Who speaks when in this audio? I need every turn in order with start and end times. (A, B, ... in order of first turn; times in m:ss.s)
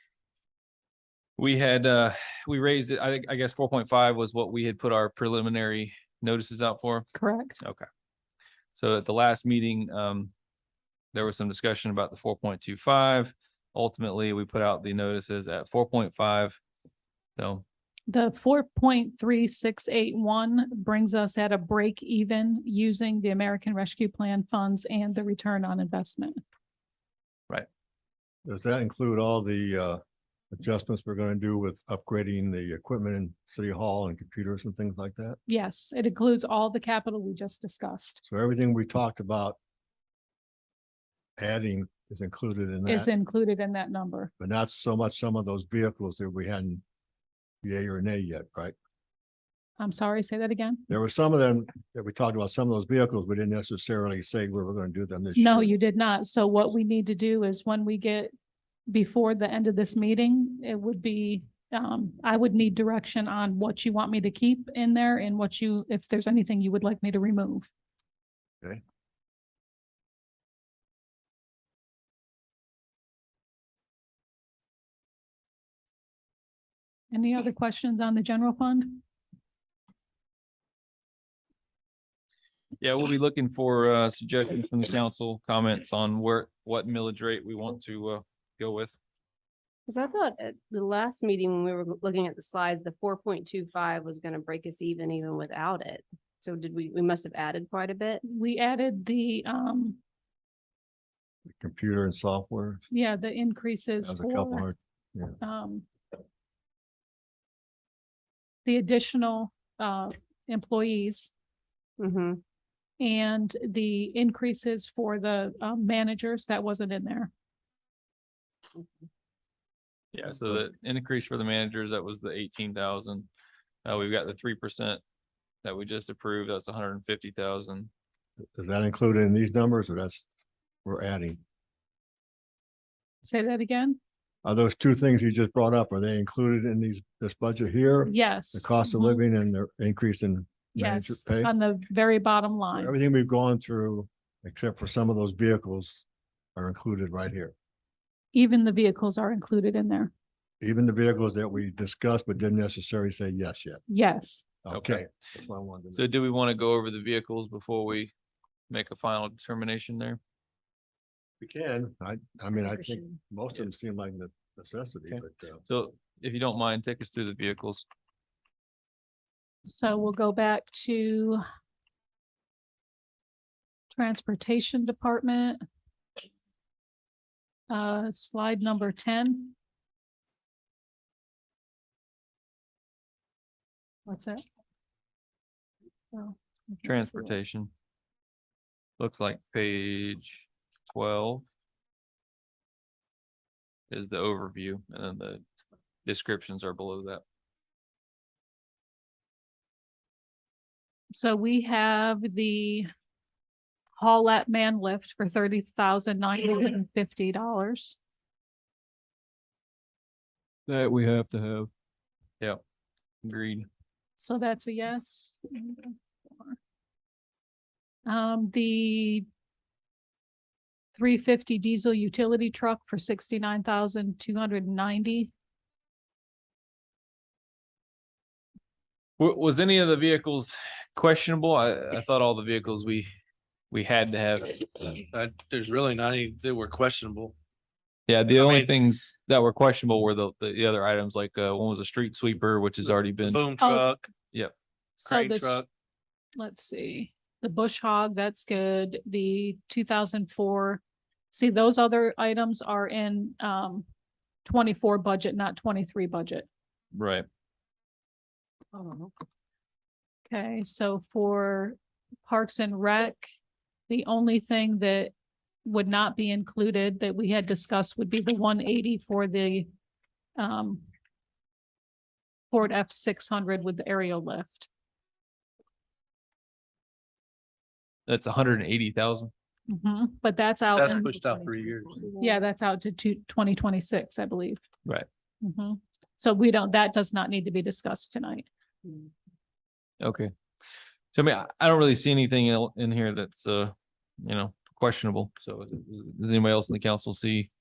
0:01.4-0:07.9 A
0:07.1-0:07.6 B
0:08.7-0:10.3 A
0:11.1-0:16.6 A
0:17.4-0:17.6 A
0:18.1-0:26.4 B
0:28.4-0:30.0 C
0:30.5-0:35.4 C
0:35.5-0:38.2 B
0:38.2-0:39.6 C
0:41.4-0:43.1 C
0:42.8-0:44.3 B
0:44.4-0:46.8 C
0:47.6-0:48.7 C
0:49.8-0:50.8 B
0:50.9-0:55.7 C
0:55.4-0:58.3 B
0:58.9-1:07.7 B
1:17.1-1:19.0 B
1:22.8-1:29.0 A
1:29.9-1:38.2 D
1:38.2-1:40.0 B
1:41.4-1:42.8 C
1:42.9-1:44.6 B
1:44.0-1:45.4 C
1:45.4-1:45.9 B
1:48.6-1:51.3 B
1:52.0-1:52.4 D
1:53.0-1:57.3 B
2:00.1-2:03.3 A
2:03.8-2:05.0 A
2:05.6-2:07.9 A
2:08.5-2:10.3 C
2:10.8-2:11.4 C
2:13.2-2:14.0 B
2:14.4-2:21.5 C
2:18.0-2:19.2 B
2:20.8-2:22.9 B
2:22.7-2:26.0 C
2:26.6-2:27.5 C
2:28.3-2:30.1 B
2:30.6-2:33.8 C
2:33.9-2:34.4 B
2:34.6-2:36.0 C
2:34.7-2:35.0 A
2:35.9-2:38.1 A
2:38.7-2:40.2 A
2:41.4-2:45.6 C
2:42.6-2:43.2 D
2:45.1-2:47.9 A
2:49.6-2:51.4 B
2:53.9-2:55.6 B
2:57.7-2:59.5 B
3:04.0-3:04.4 B
3:06.1-3:07.4 B
3:06.8-3:07.7 A
3:09.0-3:11.4 A
3:13.9-3:15.4 A
3:16.0-3:17.2 A
3:21.1-3:22.9 B
3:24.0-3:28.0 B
3:30.7-3:31.7 A
3:33.2-3:33.7 A
3:34.2-3:36.6 B
3:38.1-3:39.2 B
3:41.0-3:45.3 B
3:49.2-3:53.1 A
3:53.7-3:55.0 A
3:55.1-3:57.3 E
3:58.1-4:03.4 A
3:58.3-3:58.7 E
4:03.2-4:04.1 E
4:03.6-4:03.9 B
4:05.0-4:05.6 B
4:05.0-4:05.6 E
4:06.3-4:13.9 B
4:14.4-4:16.5 B
4:16.9-4:17.2 A
4:20.3-4:23.3 B
4:23.9-4:25.1 B
4:25.6-4:29.7 B
4:30.4-4:30.8 B
4:32.5-4:34.7 B
4:38.1-4:39.3 A
4:39.7-4:41.6 B
4:40.7-4:42.1 E
4:42.2-4:44.6 B
4:45.4-4:48.4 B
4:50.0-4:50.3 A
4:51.1-4:57.5 A